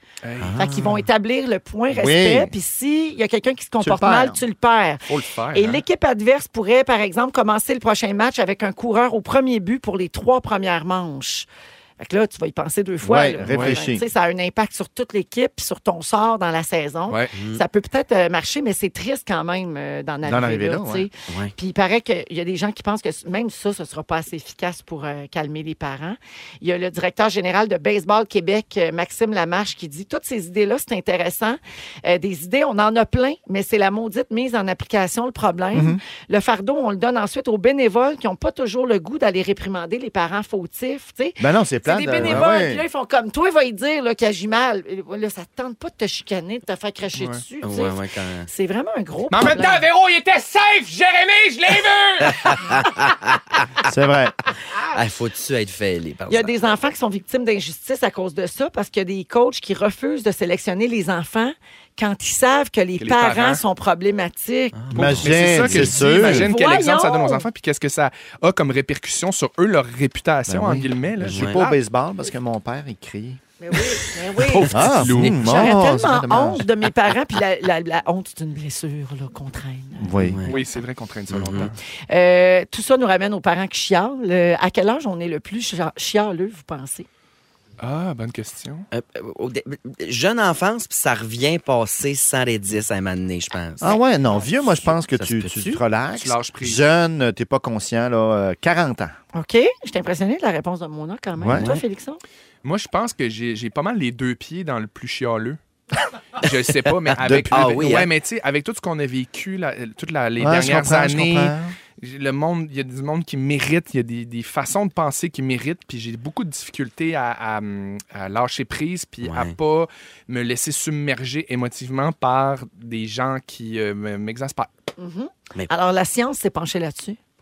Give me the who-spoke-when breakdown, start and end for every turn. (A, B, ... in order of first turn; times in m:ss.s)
0:00.2-0:01.0 A
0:00.4-0:00.7 B
0:00.6-0:11.5 C
0:01.9-0:02.5 D
0:03.8-0:04.4 D
0:05.1-0:05.8 A
0:12.0-0:49.8 C
0:13.0-0:14.0 D
0:17.4-0:17.6 B
0:20.2-0:21.1 D
0:21.3-0:21.5 B
0:35.7-0:36.0 D
0:41.4-0:42.8 D
0:47.6-0:48.5 B
0:49.3-0:52.8 A
0:52.3-0:53.6 B
0:53.8-0:54.3 D
0:54.9-0:56.5 B
0:56.3-1:04.8 C
1:03.0-1:03.6 A
1:04.8-1:06.0 B
1:04.9-1:06.5 D
1:04.9-1:11.8 A
1:06.2-1:07.4 C
1:10.5-1:13.4 D
1:11.2-1:11.6 B
1:13.6-1:20.1 C
1:14.4-1:15.7 A
1:14.7-1:16.7 D
1:20.0-1:20.5 D
1:20.2-1:20.5 B
1:20.5-1:21.8 A
1:21.3-1:21.7 B
1:22.1-1:27.1 C
1:27.8-1:28.9 A
1:28.9-1:34.0 B
1:33.8-1:39.2 D
1:34.5-1:35.8 B
1:36.2-1:36.8 A
1:39.3-1:42.2 C
1:41.4-1:41.7 D
1:41.6-1:41.8 B
1:42.6-1:45.6 A
1:46.4-2:04.7 A
1:47.2-1:47.6 D
1:47.3-1:48.1 B
1:50.4-1:51.7 D
1:59.2-1:59.6 B
2:05.0-2:07.2 C